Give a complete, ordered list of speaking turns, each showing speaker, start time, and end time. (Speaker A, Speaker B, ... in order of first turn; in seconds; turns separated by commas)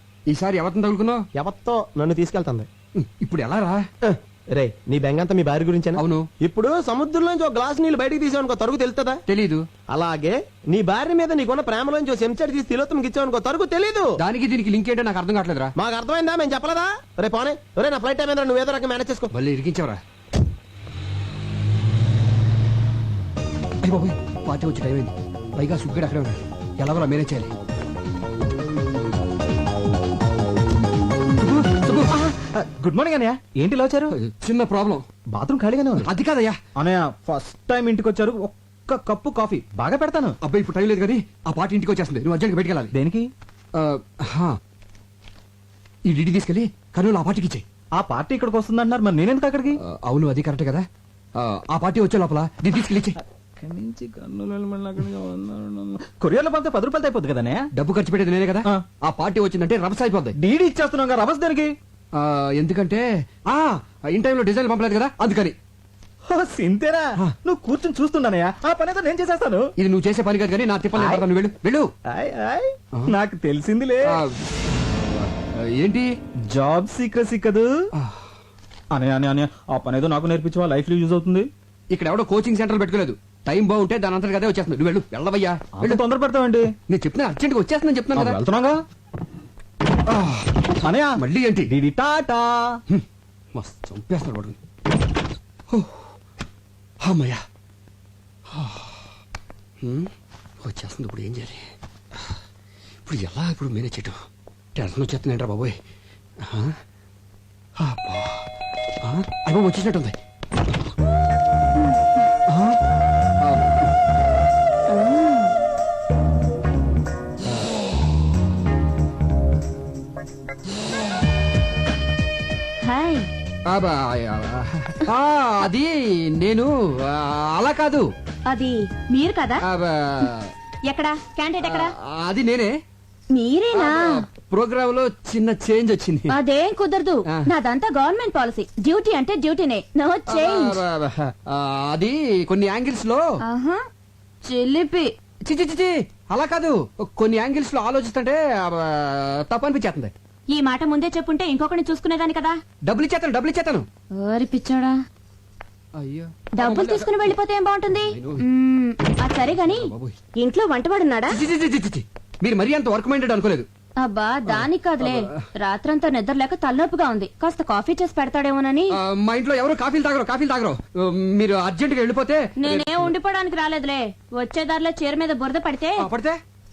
Speaker A: 0.3-1.2, Speaker B: 1.4-2.7, Speaker A: 3.0-3.8, Speaker B: 4.0-9.2, Speaker A: 6.0-6.2, Speaker A: 9.3-9.6, Speaker B: 9.9-14.1, Speaker A: 14.2-15.7, Speaker B: 15.8-19.3, Speaker A: 19.3-20.0, Speaker A: 23.8-27.5, Speaker A: 31.4-32.1, Speaker C: 32.2-34.1, Speaker A: 34.1-35.0, Speaker C: 35.3-36.1, Speaker A: 36.0-36.5, Speaker C: 36.8-40.4, Speaker A: 40.4-42.9, Speaker C: 42.9-43.3, Speaker A: 43.7-44.5, Speaker A: 46.0-47.6, Speaker C: 48.0-49.8, Speaker A: 49.8-50.8, Speaker A: 51.4-53.2, Speaker C: 53.6-57.7, Speaker A: 57.7-60.3, Speaker C: 60.4-61.7, Speaker A: 62.1-65.5, Speaker C: 66.3-69.7, Speaker A: 69.8-71.9, Speaker C: 72.1-74.1, Speaker A: 74.1-76.1, Speaker C: 76.5-77.8, Speaker C: 78.9-81.5, Speaker A: 81.9-86.0, Speaker C: 85.8-86.7, Speaker A: 86.9-88.4, Speaker C: 88.2-88.8, Speaker A: 90.1-91.7, Speaker C: 90.8-92.8, Speaker A: 92.9-94.6, Speaker A: 95.7-96.1, Speaker A: 97.0-97.4, Speaker A: 98.5-99.1, Speaker A: 99.8-100.1, Speaker A: 100.6-101.7, Speaker A: 103.0-104.2, Speaker A: 104.7-105.8, Speaker A: 106.4-106.8, Speaker A: 107.8-108.4, Speaker A: 109.0-110.2, Speaker A: 112.5-112.8, Speaker A: 113.4-113.9, Speaker D: 114.9-115.3, Speaker E: 115.2-115.5, Speaker E: 122.8-123.2, Speaker A: 123.7-128.0, Speaker E: 128.5-129.5, Speaker A: 129.7-130.5, Speaker E: 130.9-131.8, Speaker D: 131.1-131.7, Speaker A: 131.6-132.7, Speaker E: 133.3-134.1, Speaker A: 133.7-136.3, Speaker E: 136.4-140.7, Speaker D: 136.6-136.9, Speaker D: 137.7-140.3, Speaker A: 140.3-143.2, Speaker E: 143.5-143.8, Speaker D: 144.5-145.0, Speaker E: 144.5-145.0, Speaker A: 145.4-150.1, Speaker E: 150.5-152.5, Speaker D: 150.6-152.4, Speaker A: 152.8-153.8, Speaker E: 154.2-154.9, Speaker D: 154.3-154.8, Speaker A: 155.9-157.3, Speaker E: 156.6-158.0, Speaker A: 158.1-158.4, Speaker E: 158.5-159.8, Speaker D: 158.7-159.6, Speaker A: 159.5-160.2, Speaker E: 160.4-161.2, Speaker D: 160.6-161.2, Speaker A: 161.3-163.7, Speaker E: 164.0-165.7, Speaker D: 164.1-165.0, Speaker A: 164.5-165.3, Speaker D: 165.7-168.8, Speaker E: 166.3-168.8, Speaker A: 168.9-173.1, Speaker E: 172.7-175.9, Speaker D: 173.0-175.9, Speaker A: 176.0-176.4